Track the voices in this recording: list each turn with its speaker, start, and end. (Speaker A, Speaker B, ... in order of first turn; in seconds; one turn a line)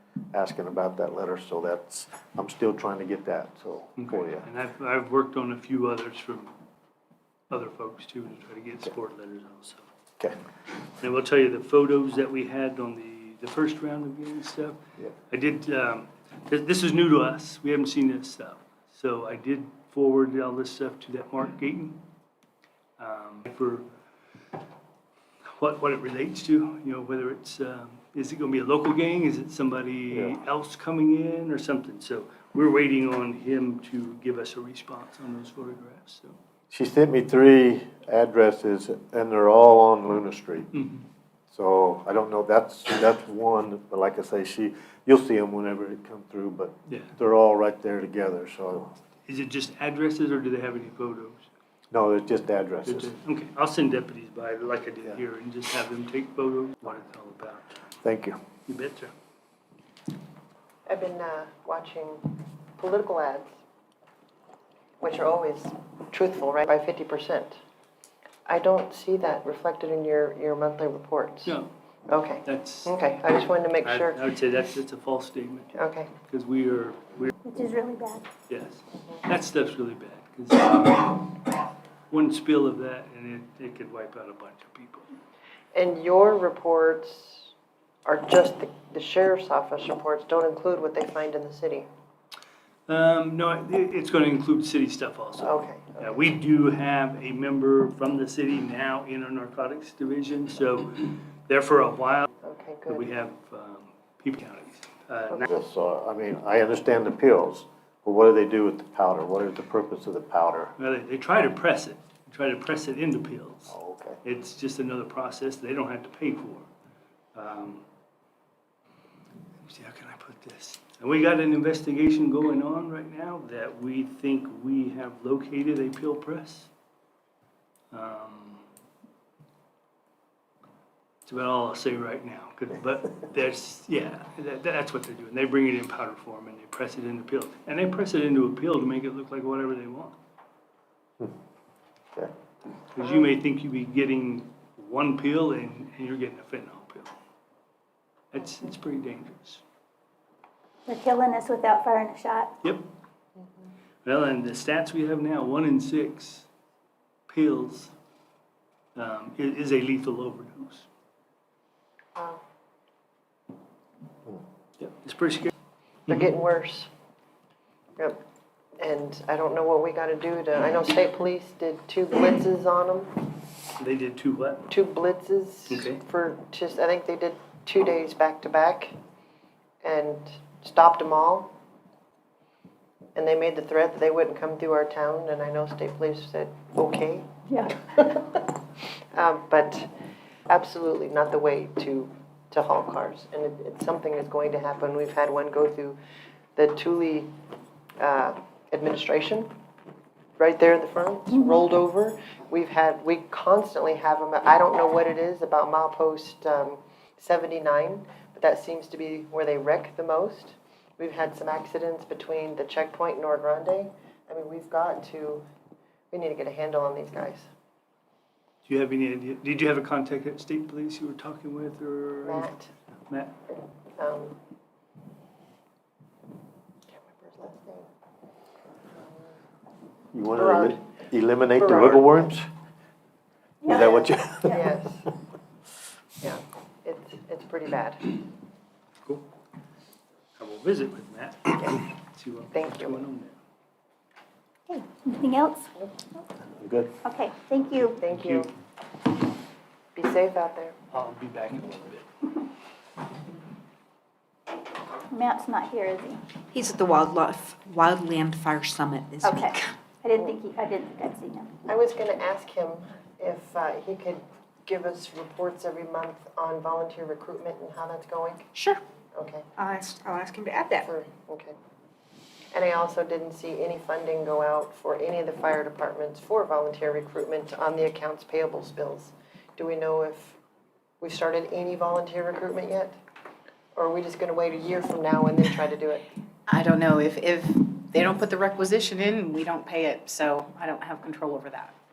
Speaker A: 0.3-4.5
Speaker B: 4.0-6.5
Speaker B: 7.5-9.8
Speaker B: 11.0-14.8
Speaker B: 15.3-22.0
Speaker B: 23.0-23.9
Speaker B: 25.6-36.4
Speaker A: 30.1-30.4
Speaker A: 36.7-40.7
Speaker B: 40.7-41.0
Speaker A: 41.5-49.0
Speaker B: 46.9-47.1
Speaker B: 49.3-51.5
Speaker A: 51.9-53.1
Speaker B: 52.9-57.7
Speaker A: 58.0-58.4
Speaker B: 58.7-59.1
Speaker C: 60.9-63.5
Speaker C: 65.0-67.6
Speaker C: 68.5-71.6
Speaker C: 72.1-74.2
Speaker B: 72.5-72.9
Speaker B: 73.8-77.3
Speaker C: 75.8-76.1
Speaker D: 77.4-78.3
Speaker B: 78.5-81.5
Speaker B: 82.1-85.1
Speaker C: 85.7-87.5
Speaker C: 88.0-91.9
Speaker B: 92.9-102.3
Speaker C: 95.4-96.3
Speaker C: 102.4-103.1
Speaker B: 102.9-105.5
Speaker A: 105.5-110.7
Speaker B: 110.8-116.7
Speaker A: 113.7-114.2
Speaker B: 117.3-117.8
Speaker B: 119.6-126.7
Speaker B: 127.9-128.6
Speaker B: 131.3-140.2
Speaker B: 142.9-147.1
Speaker B: 148.3-149.6
Speaker D: 150.9-152.5
Speaker C: 153.4-153.7
Speaker B: 154.1-156.5
Speaker B: 157.3-157.9
Speaker B: 159.0-160.9
Speaker C: 162.2-162.4
Speaker B: 164.8-165.5
Speaker C: 166.1-166.9
Speaker C: 168.8-173.3
Speaker B: 173.8-174.7
Speaker C: 174.7-178.9
Speaker B: 175.7-176.0
Speaker C: 179.8-181.5
Speaker C: 183.2-187.3
Speaker C: 187.9-188.4
Speaker C: 189.1-189.9
Speaker C: 190.5-196.0
Speaker C: 196.6-197.3
Speaker C: 198.0-199.5
Speaker C: 200.4-215.4
Speaker C: 216.1-217.5
Speaker B: 218.7-222.5
Speaker C: 222.2-222.7
Speaker B: 223.1-223.3
Speaker C: 224.0-224.4
Speaker C: 226.9-227.9
Speaker C: 229.0-229.3
Speaker A: 230.1-232.5
Speaker C: 230.4-230.8
Speaker C: 231.6-232.2
Speaker D: 233.6-234.1
Speaker A: 233.7-234.6
Speaker C: 233.7-235.1
Speaker C: 236.2-238.1
Speaker B: 240.4-243.4
Speaker C: 242.5-243.0
Speaker D: 244.7-245.7
Speaker A: 246.5-246.9
Speaker D: 247.0-248.0
Speaker C: 248.0-248.5
Speaker B: 248.2-248.5
Speaker C: 249.9-250.8
Speaker B: 250.9-252.1
Speaker D: 255.1-256.2
Speaker E: 256.5-259.7
Speaker D: 259.2-261.5
Speaker C: 261.7-268.5
Speaker E: 268.6-268.8
Speaker C: 269.1-269.5
Speaker E: 269.6-270.9
Speaker C: 270.9-271.5
Speaker C: 272.5-280.4
Speaker C: 281.0-282.9
Speaker C: 283.8-286.1
Speaker F: 286.5-291.8